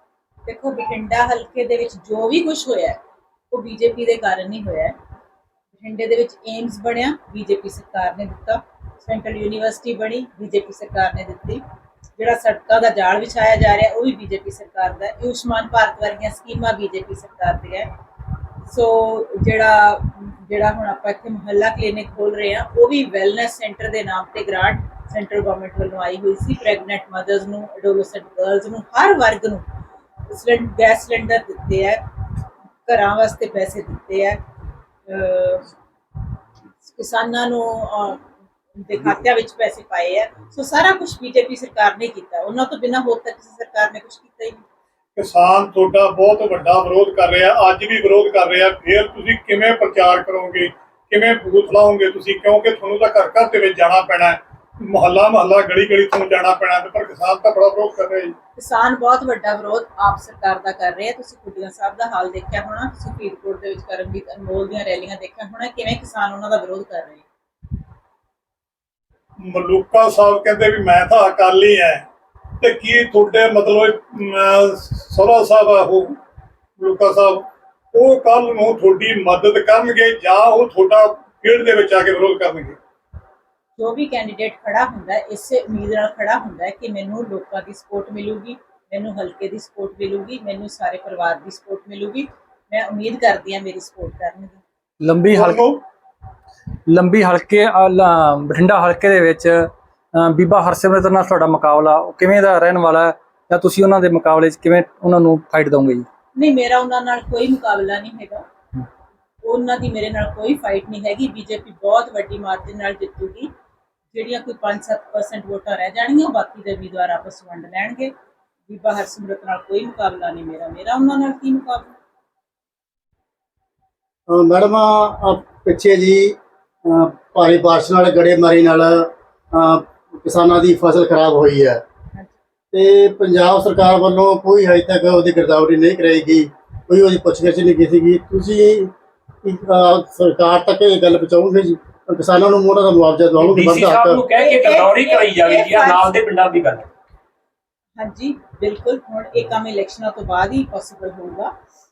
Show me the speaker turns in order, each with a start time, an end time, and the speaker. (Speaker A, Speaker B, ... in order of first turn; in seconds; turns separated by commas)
Speaker A: 0.5-3.0, Speaker A: 3.5-4.9, Speaker A: 5.8-11.6, Speaker A: 12.2-17.9, Speaker A: 18.6-29.6, Speaker A: 30.3-32.0, Speaker A: 32.9-34.4, Speaker A: 35.1-35.7, Speaker A: 36.8-38.2, Speaker A: 38.8-44.6, Speaker B: 45.1-58.3, Speaker A: 58.5-67.2, Speaker B: 69.4-72.0, Speaker B: 72.6-76.2, Speaker B: 76.8-82.8, Speaker A: 83.8-94.6, Speaker C: 95.0-95.8, Speaker B: 95.3-95.8, Speaker C: 96.9-106.0, Speaker A: 106.3-108.4, Speaker A: 109.4-113.5, Speaker A: 114.1-118.1, Speaker A: 118.7-121.9, Speaker D: 124.3-131.8, Speaker D: 132.7-138.9, Speaker D: 139.4-144.2, Speaker E: 143.4-146.9, Speaker A: 144.3-146.2, Speaker A: 148.0-151.5